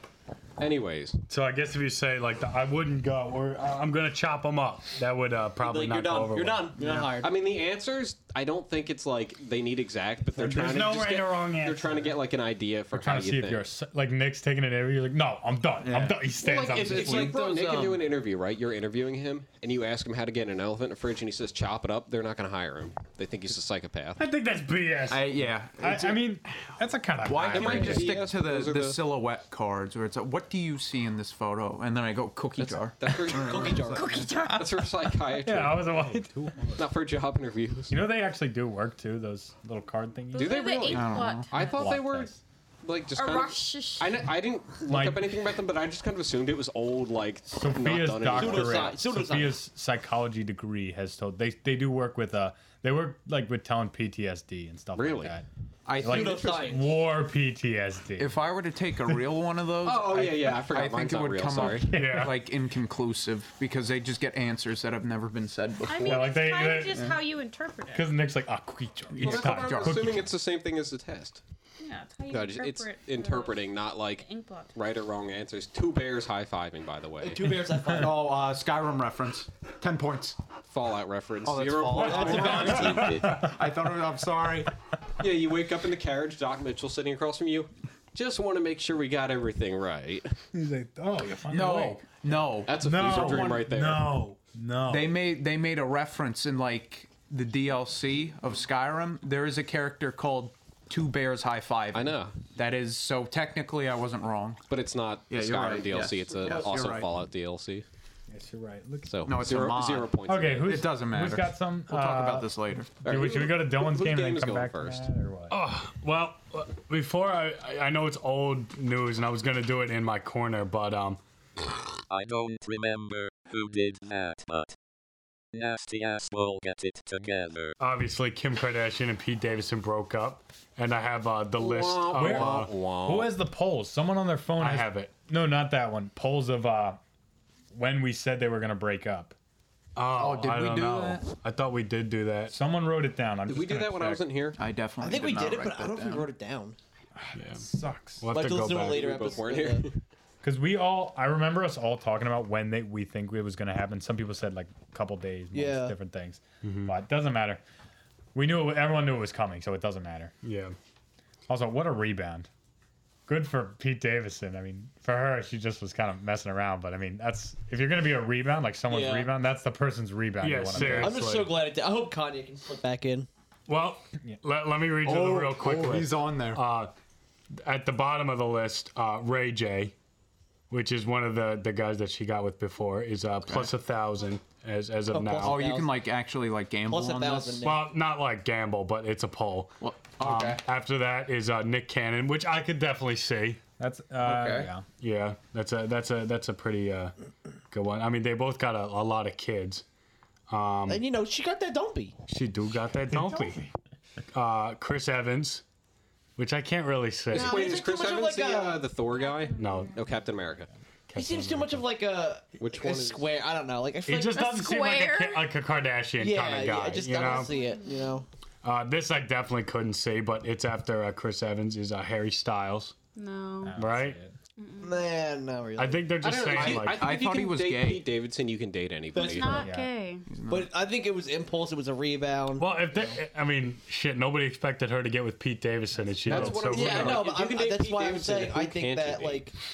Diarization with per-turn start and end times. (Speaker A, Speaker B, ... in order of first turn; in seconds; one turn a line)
Speaker A: 0.6-1.2
Speaker B: 1.3-6.7
Speaker C: 5.6-7.3
Speaker D: 6.8-7.1
Speaker A: 7.2-13.6
Speaker B: 10.4-12.0
Speaker E: 12.9-17.4
Speaker D: 15.8-18.1
Speaker A: 16.4-24.2
Speaker B: 24.2-25.3
Speaker D: 25.1-26.4
Speaker E: 25.7-28.2
Speaker D: 27.2-34.6
Speaker A: 27.4-29.0
Speaker A: 32.6-33.8
Speaker C: 33.3-34.3
Speaker F: 33.9-34.9
Speaker A: 34.5-36.0
Speaker E: 35.4-36.9
Speaker A: 36.8-38.0
Speaker E: 37.9-40.7
Speaker F: 40.3-42.0
Speaker A: 40.3-48.9
Speaker D: 40.9-41.5
Speaker E: 41.6-42.4
Speaker F: 43.2-44.2
Speaker E: 44.9-45.3
Speaker E: 47.5-55.5
Speaker C: 48.3-49.6
Speaker A: 55.0-55.4
Speaker D: 55.9-56.6
Speaker E: 56.0-59.4
Speaker C: 56.0-56.9
Speaker D: 58.2-66.3
Speaker A: 59.8-61.9
Speaker E: 61.6-62.3
Speaker B: 61.9-62.4
Speaker F: 65.9-68.1
Speaker E: 66.0-67.1
Speaker E: 67.9-70.3
Speaker D: 69.2-70.3
Speaker A: 69.2-71.4
Speaker F: 71.8-74.7
Speaker A: 72.3-77.6
Speaker C: 77.2-78.3
Speaker D: 77.8-80.4
Speaker A: 80.7-83.1
Speaker D: 81.4-84.7
Speaker C: 81.9-82.9
Speaker E: 82.4-83.6
Speaker G: 82.5-83.3
Speaker A: 85.2-90.2
Speaker E: 90.5-95.2
Speaker D: 91.5-93.7
Speaker A: 92.7-94.1
Speaker D: 94.9-104.6
Speaker A: 101.9-102.4
Speaker A: 104.7-107.8
Speaker D: 105.3-107.1
Speaker E: 108.3-109.8
Speaker A: 109.1-110.9
Speaker D: 109.2-112.9
Speaker E: 110.3-115.6
Speaker A: 113.0-115.1
Speaker B: 115.5-121.2
Speaker G: 122.1-124.7
Speaker G: 125.5-127.8
Speaker B: 127.8-132.7
Speaker A: 131.6-133.3
Speaker E: 132.1-137.0
Speaker B: 134.6-135.1
Speaker E: 137.7-139.3
Speaker B: 140.0-142.5
Speaker D: 140.1-141.3
Speaker E: 142.5-144.2
Speaker A: 143.5-144.6
Speaker D: 144.6-146.3
Speaker C: 145.0-146.8
Speaker E: 147.2-148.2
Speaker B: 147.4-147.6
Speaker B: 148.2-149.2
Speaker C: 148.3-149.9
Speaker A: 148.8-150.0
Speaker E: 150.4-157.6
Speaker C: 155.5-155.9
Speaker B: 156.6-156.9
Speaker E: 158.3-160.3
Speaker B: 160.4-160.8
Speaker E: 161.5-162.5
Speaker E: 163.3-171.2
Speaker C: 168.9-169.3
Speaker B: 170.4-171.6
Speaker C: 170.8-173.3
Speaker B: 173.7-176.9
Speaker D: 175.0-176.7
Speaker B: 177.6-179.9
Speaker B: 180.7-185.7
Speaker D: 183.4-183.7
Speaker C: 185.1-185.9
Speaker D: 185.4-187.7
Speaker C: 186.9-187.9
Speaker B: 187.6-193.6
Speaker D: 189.8-190.6
Speaker E: 193.8-194.9
Speaker D: 194.2-194.7
Speaker B: 195.0-197.1
Speaker B: 197.7-199.8
Speaker B: 200.5-201.1
Speaker C: 200.9-202.2
Speaker B: 202.3-203.6
Speaker E: 203.1-203.7
Speaker B: 204.3-205.6
Speaker B: 206.4-207.7
Speaker C: 207.3-208.9
Speaker A: 207.3-210.7
Speaker F: 209.1-210.3
Speaker B: 209.6-209.9
Speaker E: 211.1-211.8
Speaker C: 211.1-214.5
Speaker A: 212.6-213.3
Speaker B: 214.1-217.5
Speaker F: 214.3-215.5
Speaker C: 216.2-218.2
Speaker F: 217.1-218.2
Speaker B: 218.6-222.9
Speaker F: 223.1-223.9
Speaker E: 223.6-224.3
Speaker B: 223.8-224.2
Speaker F: 224.6-225.1
Speaker C: 224.8-226.6
Speaker B: 225.8-227.1
Speaker A: 226.2-229.6
Speaker D: 226.7-228.1
Speaker C: 229.1-229.7
Speaker F: 229.2-230.3
Speaker E: 229.4-229.9
Speaker D: 230.3-230.7
Speaker C: 230.5-233.1
Speaker B: 232.6-237.3
Speaker A: 236.2-239.5
Speaker E: 236.3-236.7
Speaker C: 236.7-239.6